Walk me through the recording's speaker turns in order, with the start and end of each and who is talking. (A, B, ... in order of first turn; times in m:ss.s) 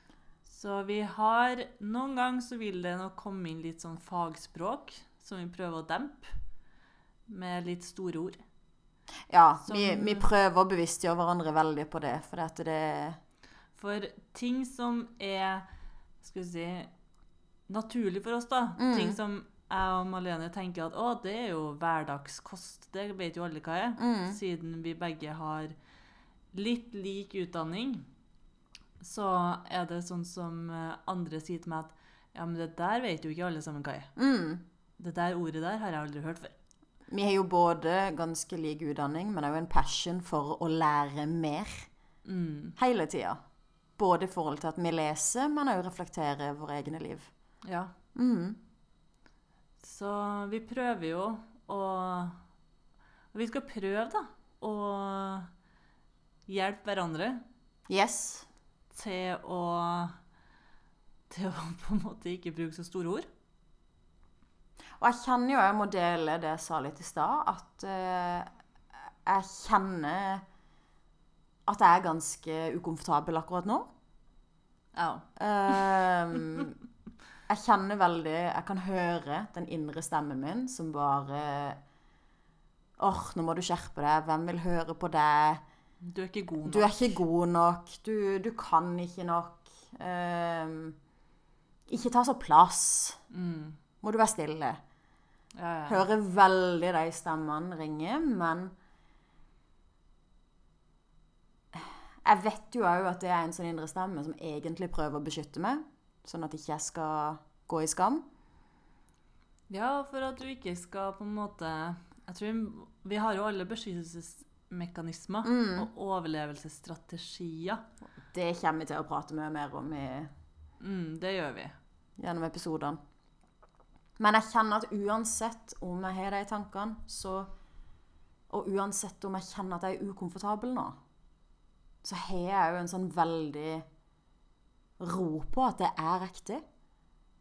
0:00.4-0:06.4 A
0:07.3-0:08.4 A
0:09.3-0:13.2 B
0:09.6-0:10.3 A
0:13.7-0:15.6 A
0:16.2-0:16.9 A
0:17.7-0:25.8 A
0:18.8-0:19.2 B
0:24.0-0:24.4 B
0:26.5-0:28.0 A
0:29.0-0:34.1 A
0:34.2-0:34.6 B
0:35.0-0:36.5 A
0:37.1-0:41.9 B
0:42.2-0:42.8 A
0:42.8-0:43.4 B
0:44.0-0:47.3 B
0:47.6-0:47.9 A
0:48.1-0:48.6 B
0:49.8-0:52.4 A
0:53.3-0:55.5 A
0:56.5-0:57.4 A
0:57.9-0:58.5 B
0:58.9-1:00.1 A
1:01.3-1:03.3 A
1:05.0-1:08.5 B
1:09.2-1:10.4 B
1:11.6-1:13.8 B
1:15.0-1:15.2 A
1:15.4-1:16.7 B
1:17.5-1:21.8 B
1:23.0-1:25.6 B
1:26.0-1:27.0 A
1:26.6-1:31.0 B
1:31.9-1:33.2 B
1:33.3-1:33.8 A
1:34.0-1:34.8 B
1:35.6-1:36.0 A
1:35.9-1:38.7 B
1:41.7-1:48.2 B
1:49.7-1:57.8 A
1:55.4-1:55.9 B
1:58.3-2:00.3 B
2:00.8-2:01.8 A
2:02.2-2:03.0 B
2:04.2-2:07.5 B
2:08.5-2:10.9 B
2:12.0-2:13.8 B
2:15.0-2:16.6 B